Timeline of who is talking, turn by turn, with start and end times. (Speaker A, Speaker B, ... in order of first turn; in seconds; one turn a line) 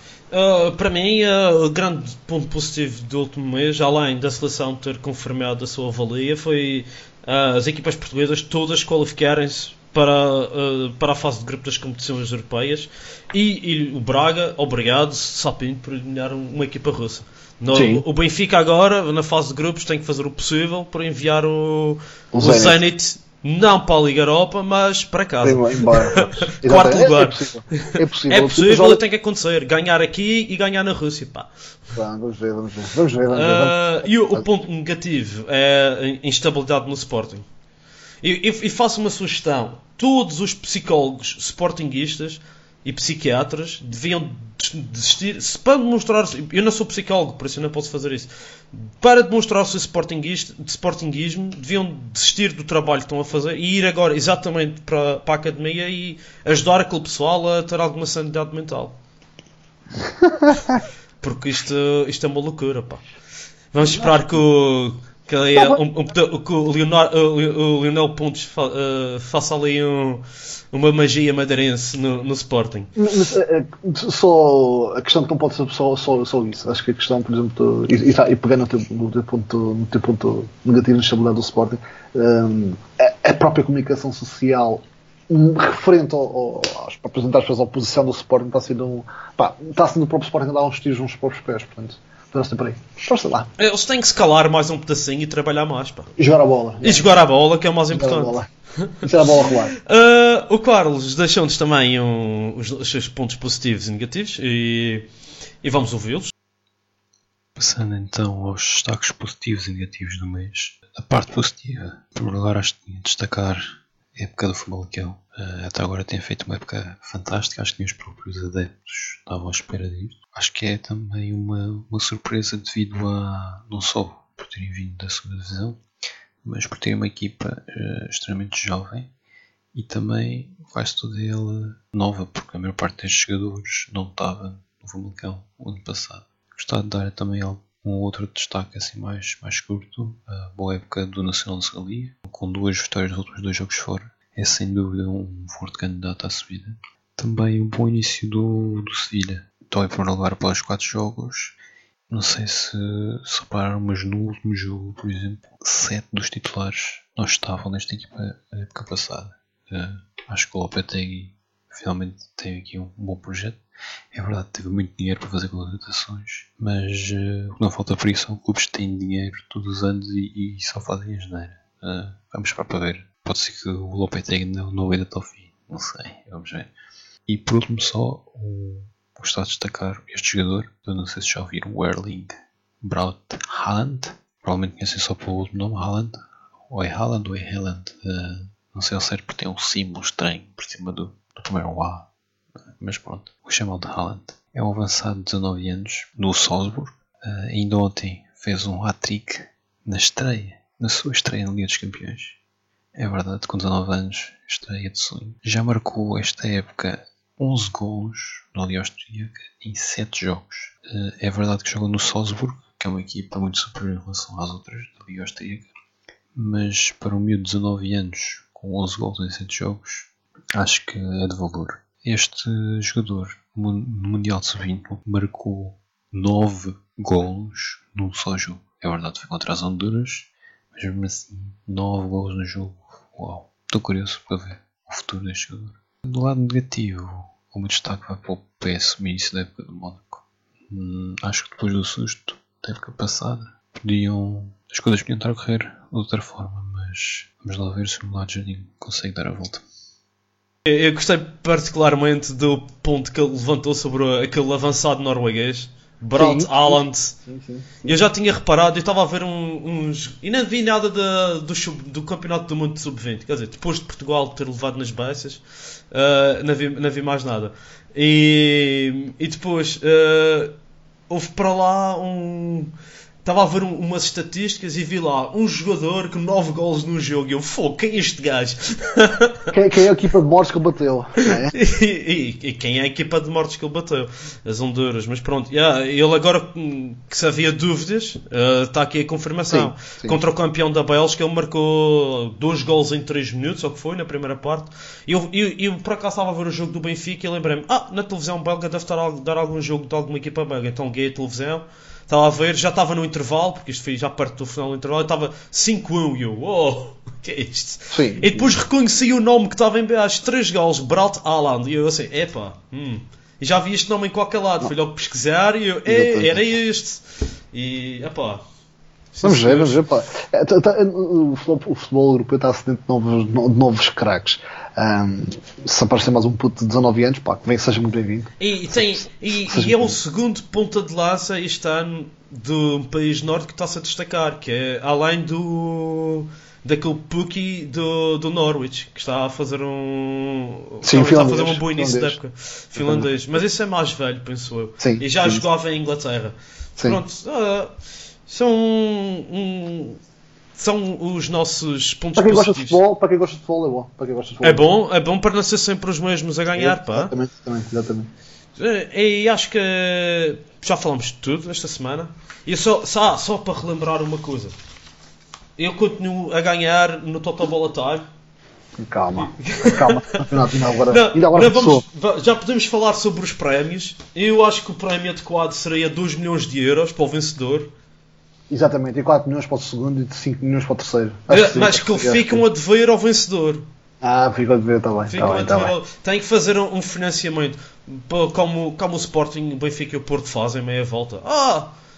Speaker A: 0.3-31.5
Speaker B: 17.7-18.0
Speaker B: 22.3-22.8
Speaker B: 25.4-29.0
Speaker B: 31.9-34.5
Speaker A: 33.3-37.5
Speaker A: 38.2-58.9
Speaker B: 60.0-60.6
Speaker A: 61.2-63.0
Speaker A: 63.7-72.9
Speaker B: 63.8-64.2
Speaker B: 65.5-65.8
Speaker B: 73.0-93.5
Speaker A: 93.6-96.1
Speaker B: 96.2-97.1
Speaker A: 96.8-99.0
Speaker B: 97.9-98.5
Speaker B: 99.0-99.7
Speaker A: 99.8-105.1
Speaker A: 105.6-106.3
Speaker C: 107.5-125.8
Speaker C: 126.4-129.1
Speaker C: 129.7-151.6
Speaker C: 152.1-163.6
Speaker C: 164.1-176.7
Speaker C: 177.3-192.1
Speaker C: 192.7-202.4
Speaker C: 202.9-215.7
Speaker C: 216.3-249.6
Speaker A: 250.6-257.2
Speaker B: 256.1-258.0
Speaker A: 257.8-270.5
Speaker A: 271.1-272.7
Speaker A: 273.2-279.5
Speaker B: 279.5-281.5
Speaker A: 281.2-318.4
Speaker B: 289.5-290.2
Speaker B: 307.9-308.5
Speaker B: 315.9-316.5
Speaker A: 319.1-319.8
Speaker B: 319.2-330.0
Speaker A: 328.4-347.7
Speaker B: 340.8-342.2
Speaker B: 342.8-343.1
Speaker B: 344.8-345.4
Speaker A: 348.3-350.0
Speaker A: 350.6-352.8
Speaker B: 352.1-354.6
Speaker A: 354.4-357.1
Speaker B: 356.5-358.1
Speaker A: 358.6-364.5
Speaker A: 365.6-368.0
Speaker B: 368.8-371.8
Speaker A: 369.2-370.3
Speaker A: 370.9-377.7
Speaker B: 378.5-382.4
Speaker A: 381.3-383.6
Speaker B: 384.0-385.7
Speaker A: 385.1-391.7